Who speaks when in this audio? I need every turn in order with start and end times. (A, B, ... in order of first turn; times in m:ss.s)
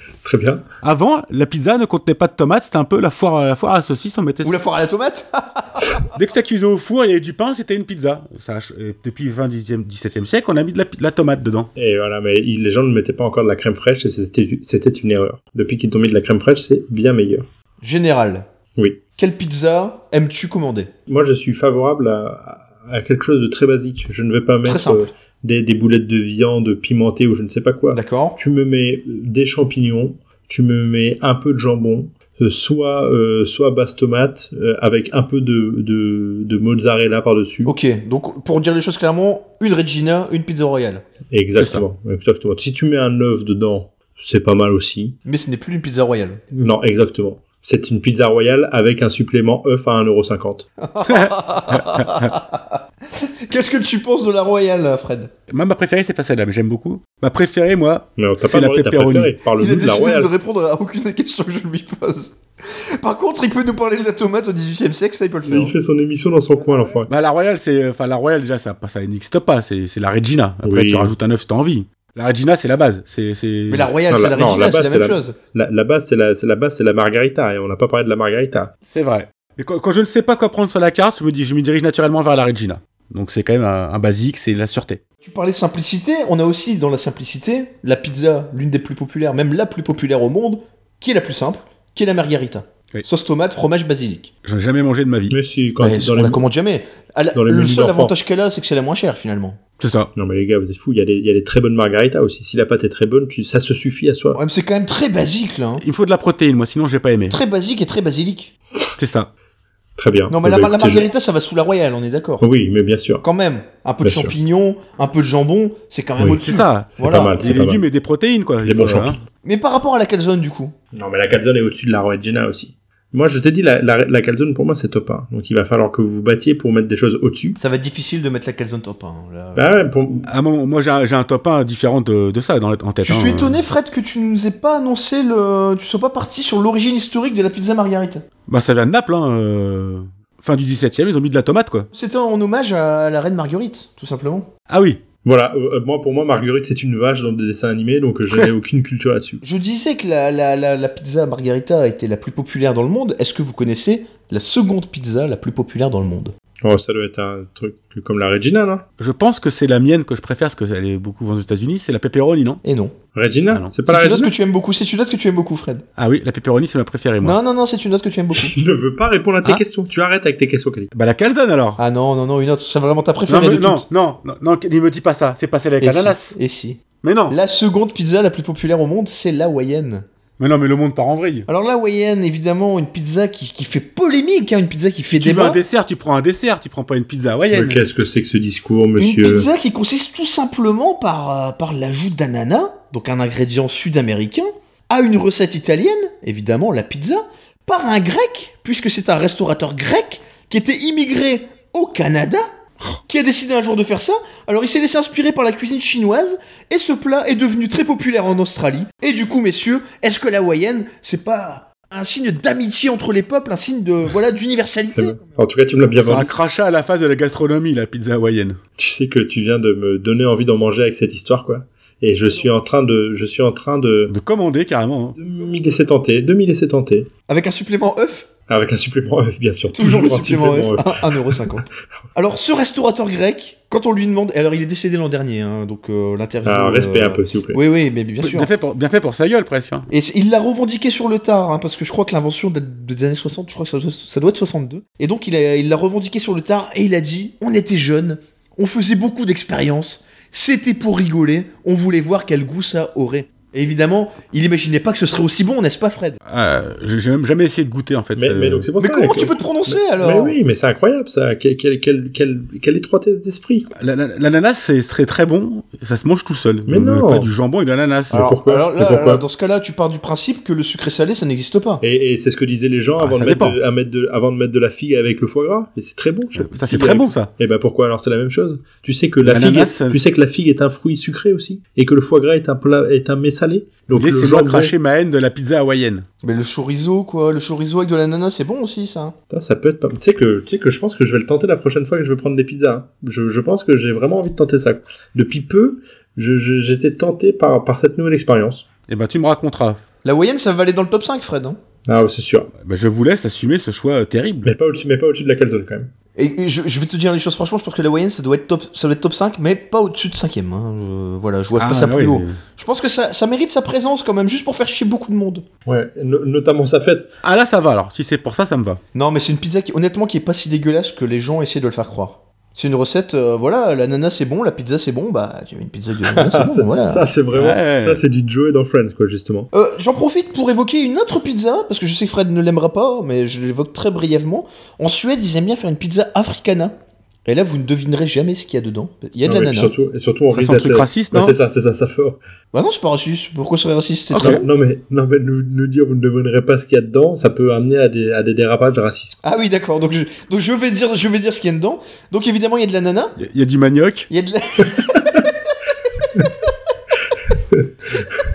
0:00.2-0:00.6 A
0:00.8-0:04.6 B
0:04.4-0:05.9 C
0:06.1-0:11.7 B
0:11.8-0:17.5 A
0:17.8-0:18.5 C
0:19.2-0:20.9 C
0:21.1-0:37.8 A
0:24.6-0:25.1 C
0:27.9-0:28.4 C
0:37.6-0:41.0 C
0:41.3-0:45.2 A
0:41.6-0:41.8 B
0:45.2-0:46.4 C
0:46.5-0:50.7 A
0:50.8-0:55.3 C
0:51.1-0:52.3 B
0:55.5-0:59.4 B
0:58.2-1:00.3 A
0:59.6-1:05.8 C
1:05.4-1:07.1 A
1:07.1-1:13.9 B
1:10.6-1:11.2 A
1:13.7-1:15.4 C
1:14.1-1:18.7 A
1:18.8-1:25.0 B
1:25.2-1:34.3 C
1:34.4-1:35.4 B
1:35.3-1:36.4 A
1:35.8-1:39.6 C
1:37.3-1:38.1 A
1:39.8-1:40.1 B
1:40.2-1:44.4 A
1:44.4-1:45.8 C
1:45.8-1:47.4 B
1:47.3-1:48.5 C
1:49.0-1:49.3 B
1:50.0-1:51.1 A
1:50.3-1:52.4 C
1:52.4-1:53.2 A
1:53.2-1:57.4 C
1:54.0-1:54.3 A
1:56.2-1:59.2 B
1:57.0-1:57.8 A
1:58.6-1:59.2 A
1:59.4-2:00.8 C
2:00.9-2:07.6 A
2:07.6-2:09.7 C
2:09.6-2:10.3 A
2:10.3-2:13.6 B
2:13.0-2:18.2 C
2:18.5-2:21.9 B
2:21.9-2:24.5 C
2:24.7-2:25.0 B
2:25.2-2:29.4 A
2:29.4-2:36.3 C
2:36.6-2:38.8 A
2:39.0-2:42.6 B
2:42.6-2:43.0 C
2:43.2-2:44.3 A
2:43.9-2:45.8 C
2:46.0-2:47.4 B
2:47.2-2:48.6 C
2:48.4-2:50.9 A
2:50.9-2:51.8 B
2:51.8-2:53.9 C
2:53.3-2:56.4 B
2:55.8-3:00.0 C
2:57.0-2:57.4 B
3:00.4-3:01.5 B
3:01.5-3:05.6 C
3:05.2-3:07.8 B
3:07.5-3:09.5 A
3:09.0-3:22.5 C
3:23.1-3:35.2 C
3:34.9-3:36.3 A
3:36.0-3:38.6 B
3:38.8-3:44.1 A
3:44.1-3:45.2 B
3:45.2-3:47.1 A
3:47.3-3:48.3 C
3:48.5-3:51.5 A
3:49.8-3:58.5 C
3:56.4-3:57.6 A
3:58.2-3:59.9 B
3:59.9-4:16.2 C
4:16.2-4:18.7 B
4:18.2-4:23.7 A
4:18.8-4:20.4 C
4:23.8-4:28.3 B
4:26.7-4:27.3 A
4:28.1-4:29.2 A
4:28.1-4:31.8 C
4:31.8-4:44.7 A
4:33.0-4:33.6 B
4:36.4-4:37.3 B
4:39.2-4:40.0 B
4:43.9-4:46.1 B
4:46.2-4:49.1 C
4:49.3-4:58.6 A
4:58.9-4:59.8 B
5:00.0-5:01.6 C
5:01.9-5:02.5 A
5:02.6-5:04.5 B
5:04.4-5:05.9 A
5:06.2-5:15.4 C
5:11.6-5:12.4 B
5:15.7-5:17.1 A
5:17.2-5:18.8 B
5:18.9-5:27.1 C
5:26.1-5:29.5 A
5:27.3-5:28.0 B
5:29.5-5:39.7 C
5:39.2-5:42.2 A
5:40.3-5:41.4 B
5:42.5-5:44.5 C
5:44.1-5:44.4 B
5:44.2-5:49.2 A
5:49.2-5:53.2 C
5:53.2-5:54.1 B
5:54.1-5:55.3 C